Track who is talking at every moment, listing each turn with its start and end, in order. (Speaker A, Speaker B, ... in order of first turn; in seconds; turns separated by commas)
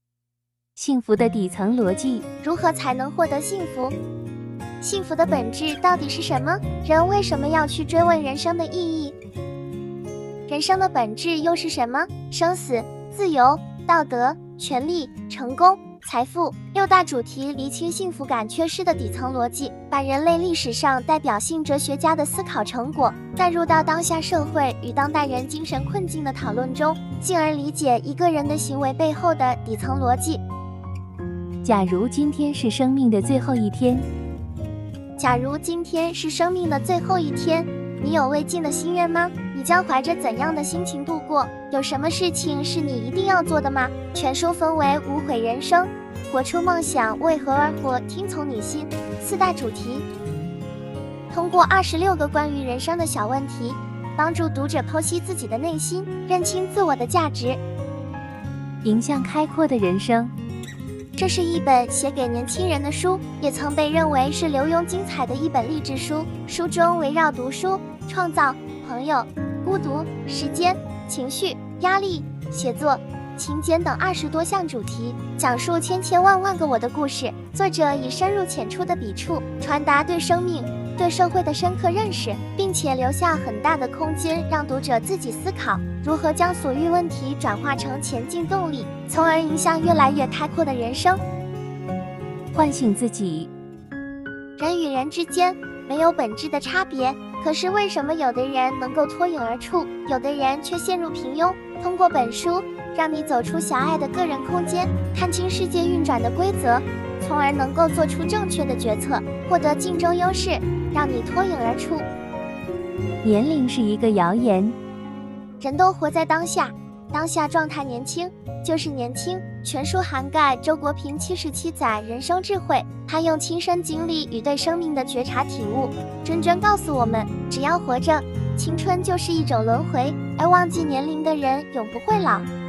Speaker A: 0.8-2.3, Speaker B: 2.4-4.0, Speaker B: 4.8-9.2, Speaker B: 10.5-30.4, Speaker A: 31.6-34.1, Speaker B: 35.2-50.1, Speaker B: 51.3-57.6, Speaker A: 58.8-60.3, Speaker B: 61.2-91.2, Speaker A: 92.5-93.5, Speaker B: 94.6-112.1, Speaker A: 113.2-114.8, Speaker B: 115.6-132.5